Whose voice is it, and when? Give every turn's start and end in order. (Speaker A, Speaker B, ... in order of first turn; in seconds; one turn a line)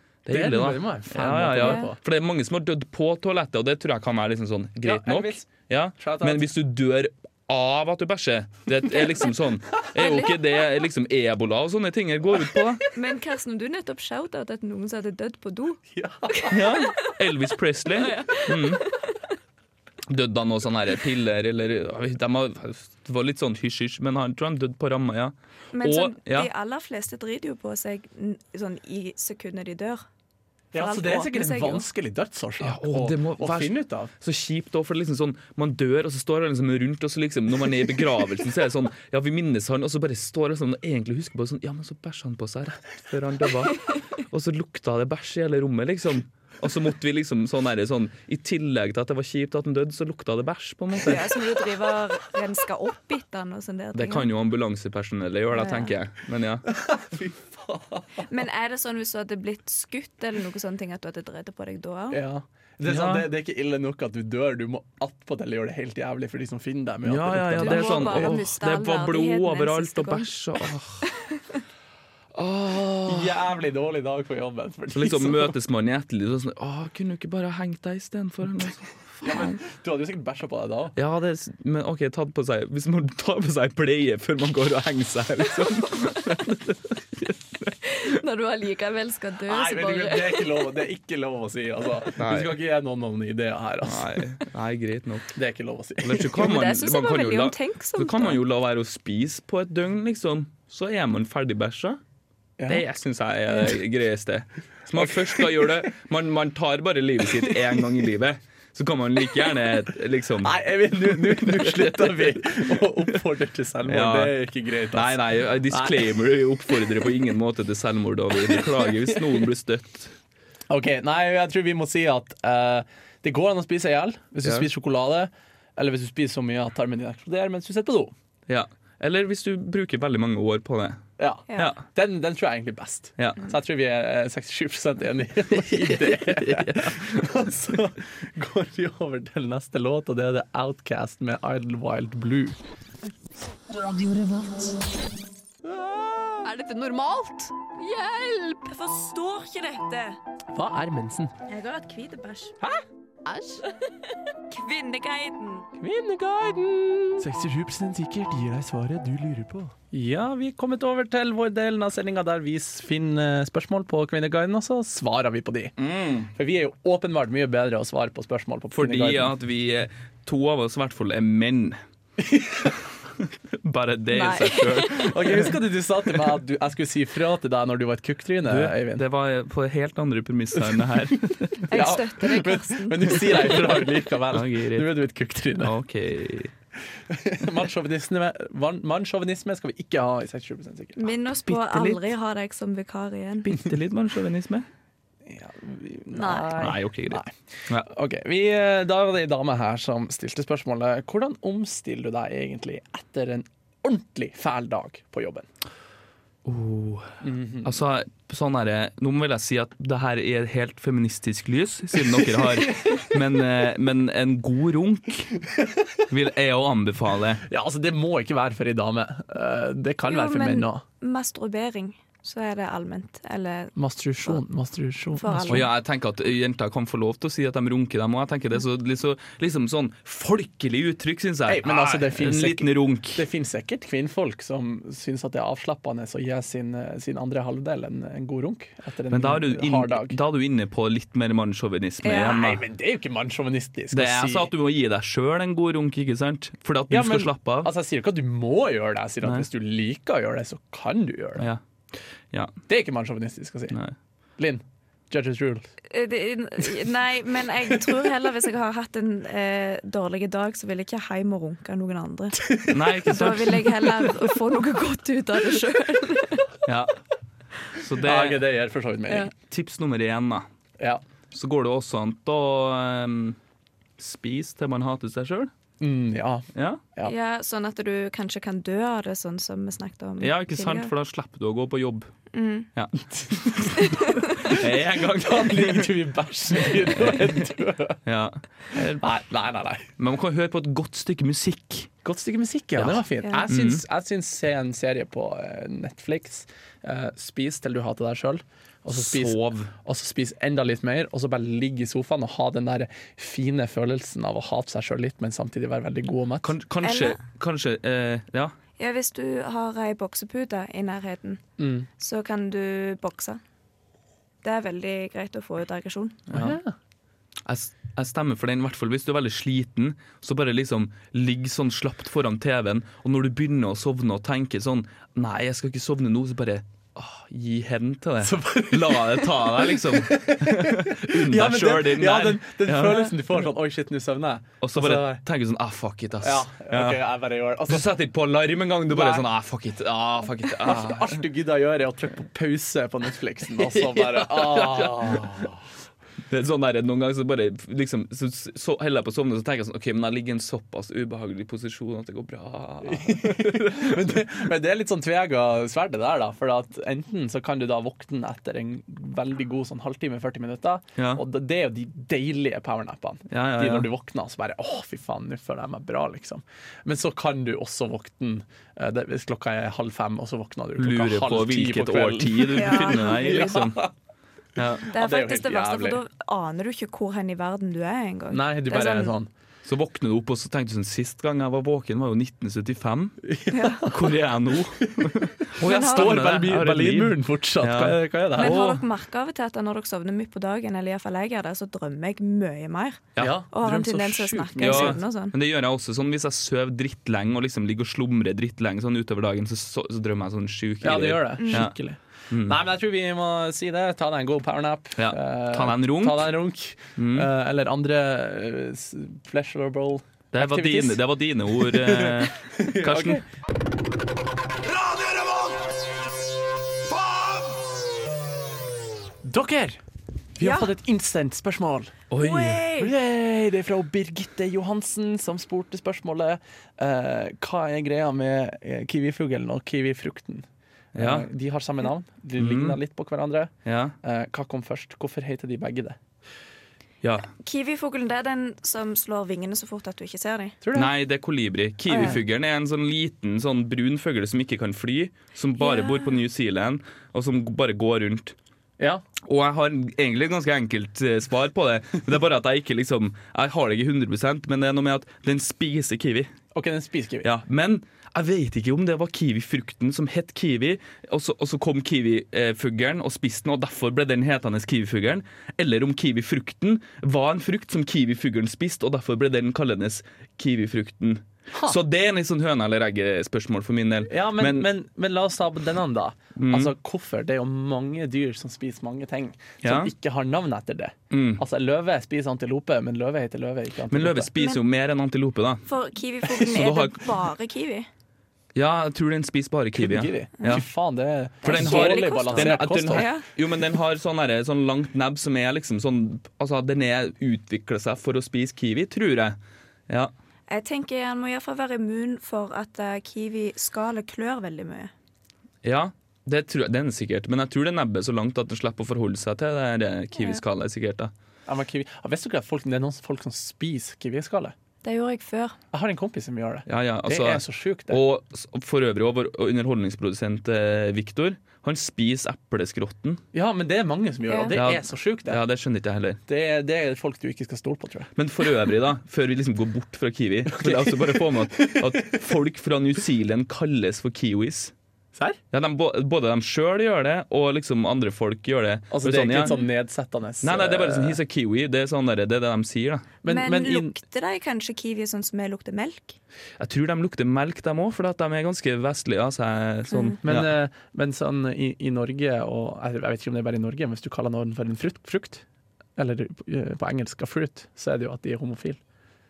Speaker A: 0.2-12.8
Speaker B: 0.3-2.0
Speaker C: 1.6-1.9
Speaker B: 4.8-5.5
Speaker B: 6.0-6.4
Speaker C: 9.9-10.5
Speaker C: 12.9-15.8
Speaker B: 15.9-16.6
Speaker C: 16.3-17.0
Speaker A: 16.5-18.8
Speaker C: 17.9-19.2
Speaker A: 20.1-26.5
Speaker C: 25.7-30.1
Speaker B: 30.7-34.1
Speaker C: 30.8-31.9
Speaker A: 32.6-51.3
Speaker C: 51.0-54.3
Speaker A: 53.9-56.7
Speaker C: 55.5-55.9
Speaker B: 56.7-58.2
Speaker C: 58.2-62.2
Speaker B: 62.1-68.4
Speaker A: 62.9-63.3
Speaker A: 67.0-71.0
Speaker C: 67.6-71.4
Speaker A: 72.3-73.4
Speaker B: 73.1-75.6
Speaker A: 74.9-79.6
Speaker B: 79.2-81.0
Speaker A: 81.0-87.4
Speaker C: 87.8-90.8
Speaker B: 89.5-94.2
Speaker A: 92.2-92.5
Speaker A: 93.8-95.4
Speaker B: 95.3-96.5
Speaker A: 96.0-102.0
Speaker C: 96.3-98.4
Speaker B: 102.6-102.8
Speaker A: 102.7-110.6
Speaker B: 104.9-105.7
Speaker B: 107.2-107.8
Speaker B: 110.4-116.1
Speaker A: 111.2-112.4
Speaker A: 113.8-114.3
Speaker A: 114.9-120.1
Speaker B: 120.7-128.1
Speaker A: 128.5-131.0
Speaker B: 131.2-142.6
Speaker C: 131.5-131.7
Speaker A: 135.7-137.3
Speaker B: 143.8-144.7
Speaker B: 145.6-146.6
Speaker C: 146.4-150.2
Speaker B: 150.5-151.3
Speaker C: 151.5-152.6
Speaker C: 153.2-155.7
Speaker B: 155.8-165.7
Speaker A: 165.8-166.3
Speaker B: 166.3-169.3
Speaker A: 168.7-171.8
Speaker B: 172.2-172.8
Speaker A: 173.6-175.5
Speaker C: 174.1-175.1
Speaker B: 174.9-179.1
Speaker A: 178.4-181.7
Speaker B: 180.6-180.9
Speaker C: 181.7-183.6
Speaker B: 181.7-185.8
Speaker A: 184.3-184.9
Speaker A: 185.6-186.5
Speaker B: 187.1-191.2
Speaker C: 190.9-193.6
Speaker A: 191.5-192.1
Speaker A: 193.4-194.7
Speaker B: 195.2-205.5
Speaker C: 196.1-196.6
Speaker A: 196.6-197.9
Speaker A: 206.4-215.4
Speaker B: 207.2-207.8
Speaker B: 212.0-213.2
Speaker A: 216.1-217.4
Speaker B: 217.5-220.8
Speaker C: 220.1-223.7
Speaker B: 223.8-225.7
Speaker C: 225.2-225.7
Speaker A: 225.5-233.2
Speaker B: 231.4-240.2
Speaker A: 239.1-242.6
Speaker C: 242.0-242.3
Speaker B: 242.1-244.5
Speaker A: 243.9-247.7
Speaker B: 246.9-251.4
Speaker B: 252.7-253.8
Speaker B: 254.4-255.7
Speaker C: 255.9-262.5
Speaker B: 262.4-262.8
Speaker A: 262.7-263.7
Speaker C: 263.1-266.4
Speaker A: 266.7-266.9
Speaker A: 267.7-268.5
Speaker B: 268.0-269.3
Speaker A: 269.4-270.4
Speaker A: 271.3-273.4
Speaker A: 274.0-275.5
Speaker B: 275.8-277.1
Speaker A: 276.6-276.8
Speaker C: 277.0-280.9
Speaker A: 280.2-282.1
Speaker C: 282.3-282.7
Speaker A: 282.7-283.8
Speaker B: 283.1-283.7
Speaker C: 283.7-284.6
Speaker A: 284.4-286.0
Speaker B: 284.6-288.0
Speaker A: 287.0-287.4
Speaker A: 288.1-289.1
Speaker B: 288.7-289.9
Speaker A: 290.0-291.9
Speaker B: 292.0-306.5
Speaker A: 292.8-293.8
Speaker A: 298.9-299.7
Speaker A: 306.4-308.5
Speaker C: 306.8-307.2
Speaker C: 308.8-311.4
Speaker B: 311.6-311.9
Speaker C: 312.0-313.4
Speaker C: 314.4-316.2
Speaker A: 316.3-316.6
Speaker B: 316.3-316.7
Speaker A: 317.4-333.2
Speaker B: 328.2-335.2
Speaker A: 334.6-337.1
Speaker B: 336.2-337.9
Speaker A: 337.7-341.2
Speaker B: 338.9-339.3
Speaker B: 340.5-345.6
Speaker A: 343.5-345.5
Speaker A: 346.3-354.1
Speaker B: 352.8-373.9
Speaker A: 361.0-361.2
Speaker A: 363.3-363.9
Speaker A: 370.8-373.8
Speaker C: 372.5-373.6
Speaker A: 374.6-374.9
Speaker B: 374.8-376.0
Speaker C: 374.9-379.1
Speaker B: 378.3-379.3
Speaker A: 379.6-383.2
Speaker B: 383.2-384.2
Speaker C: 383.5-383.8
Speaker A: 383.8-388.8
Speaker B: 384.8-388.6
Speaker C: 385.6-386.2
Speaker C: 388.4-395.3
Speaker B: 393.2-395.0
Speaker A: 394.6-401.8
Speaker B: 400.8-411.0
Speaker C: 401.4-401.6
Speaker A: 402.3-402.6
Speaker A: 405.0-406.4
Speaker A: 407.0-407.3
Speaker A: 410.3-413.2
Speaker B: 411.6-413.2
Speaker B: 414.7-415.6
Speaker B: 419.2-419.8
Speaker B: 420.4-422.0
Speaker C: 420.4-420.7
Speaker A: 422.1-422.7
Speaker C: 422.2-422.9
Speaker B: 422.7-433.5
Speaker A: 430.9-431.3
Speaker A: 432.4-432.8
Speaker A: 433.6-433.9
Speaker B: 434.0-436.0
Speaker A: 437.0-437.3
Speaker C: 437.4-440.6
Speaker B: 440.6-440.9
Speaker A: 440.7-448.3
Speaker C: 441.9-442.2
Speaker C: 445.6-446.2
Speaker B: 448.8-449.0
Speaker A: 449.2-456.3
Speaker B: 456.5-457.3
Speaker A: 457.2-474.7
Speaker B: 471.5-471.8
Speaker B: 474.1-484.3
Speaker A: 476.4-476.7
Speaker A: 479.6-479.9
Speaker A: 481.1-481.4
Speaker A: 483.9-485.7
Speaker C: 484.4-484.6
Speaker C: 485.7-487.9
Speaker A: 486.2-487.0
Speaker A: 488.6-490.6
Speaker B: 489.7-493.1
Speaker C: 491.4-493.2
Speaker A: 491.4-499.4
Speaker C: 500.5-504.9
Speaker A: 505.6-511.1
Speaker B: 511.4-514.5
Speaker C: 514.8-515.6
Speaker B: 515.7-518.0
Speaker A: 516.7-523.2
Speaker B: 523.3-525.4
Speaker C: 524.3-524.6
Speaker A: 524.5-526.2
Speaker B: 526.3-528.1
Speaker A: 528.1-534.7
Speaker B: 530.5-532.2
Speaker A: 535.5-539.6
Speaker B: 538.9-541.2
Speaker A: 540.4-543.1
Speaker B: 543.2-543.9
Speaker C: 543.2-546.2
Speaker A: 546.6-550.5
Speaker C: 549.9-550.2
Speaker B: 550.2-555.4
Speaker B: 556.0-558.8